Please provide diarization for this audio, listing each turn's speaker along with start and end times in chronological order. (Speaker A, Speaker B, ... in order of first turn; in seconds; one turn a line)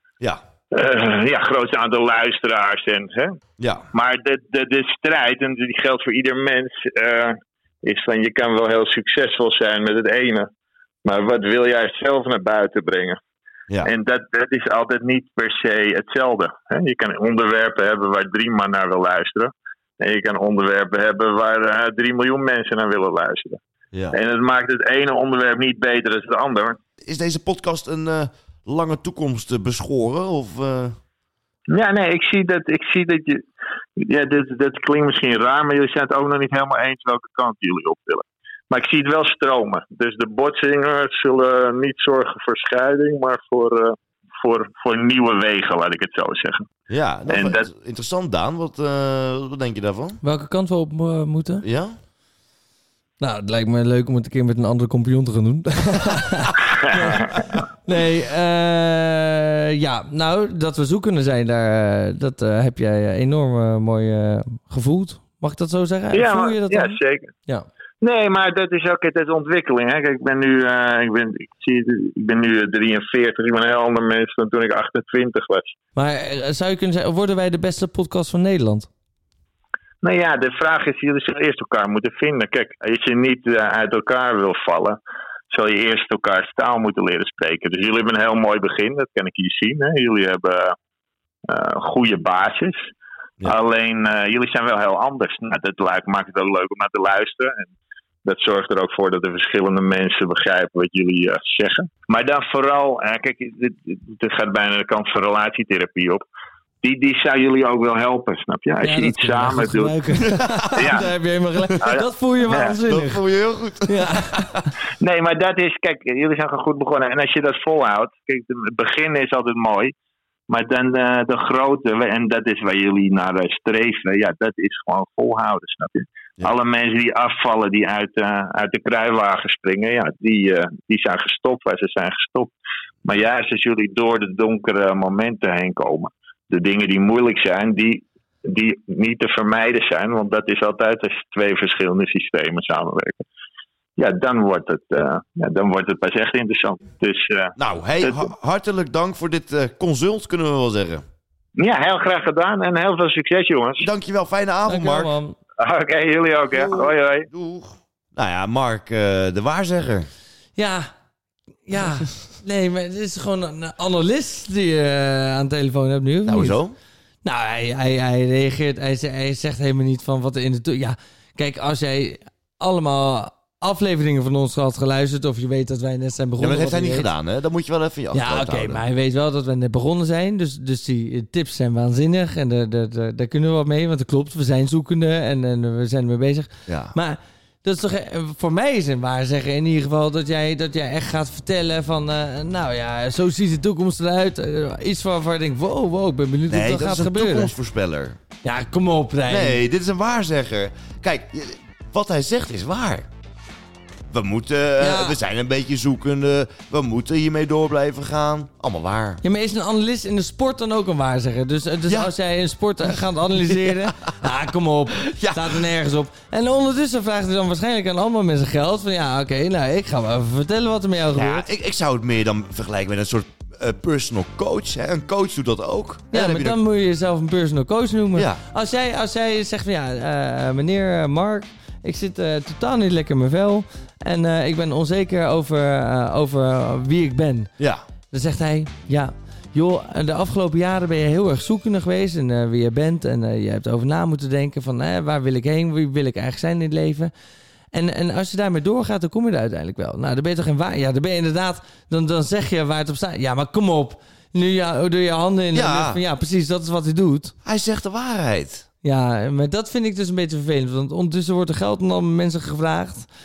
Speaker A: 0.7-3.4
Speaker B: 3.6-3.9
Speaker A: 3.9-10.5
Speaker A: 11.0-13.2
Speaker A: 13.8-23.6
Speaker A: 24.1-26.8
Speaker B: 27.0-31.0
Speaker A: 31.7-33.4
Speaker A: 34.0-46.6
Speaker B: 46.9-50.2
Speaker A: 47.3-47.7
Speaker C: 50.2-51.6
Speaker B: 51.6-52.0
Speaker C: 53.2-67.7
Speaker A: 56.8-57.4
Speaker A: 66.1-67.3
Speaker A: 68.0-75.8
Speaker C: 76.0-78.9
Speaker A: 80.0-85.0
Speaker A: 85.5-90.8
Speaker A: 91.5-92.8
Speaker A: 93.4-97.7
Speaker A: 98.2-106.2
Speaker A: 106.8-110.0
Speaker C: 108.8-113.2
Speaker B: 110.2-110.9
Speaker A: 110.7-111.1
Speaker A: 111.8-112.8
Speaker B: 112.9-114.7
Speaker C: 113.9-114.7
Speaker A: 115.0-119.9
Speaker A: 120.5-132.5
Speaker A: 133.1-143.2
Speaker A: 144.0-148.3
Speaker B: 147.6-151.0
Speaker A: 151.6-153.9
Speaker B: 153.8-155.1
Speaker C: 154.7-155.4
Speaker A: 155.6-157.3
Speaker B: 156.5-160.1
Speaker C: 160.6-160.9
Speaker C: 161.7-166.6
Speaker B: 166.3-166.8
Speaker C: 167.2-177.1
Speaker B: 176.4-178.8
Speaker C: 178.1-197.5
Speaker B: 186.7-187.0
Speaker B: 196.5-198.2
Speaker C: 198.4-199.6
Speaker B: 199.3-203.1
Speaker B: 204.1-209.2
Speaker C: 204.8-205.2
Speaker C: 209.2-221.5
Speaker B: 211.9-212.1
Speaker B: 213.4-214.3
Speaker B: 215.0-215.7
Speaker B: 221.1-226.6
Speaker C: 226.1-237.5
Speaker B: 228.2-228.4
Speaker C: 238.1-247.1
Speaker C: 247.7-257.3
Speaker B: 255.5-256.0
Speaker B: 257.4-258.7
Speaker C: 258.8-263.1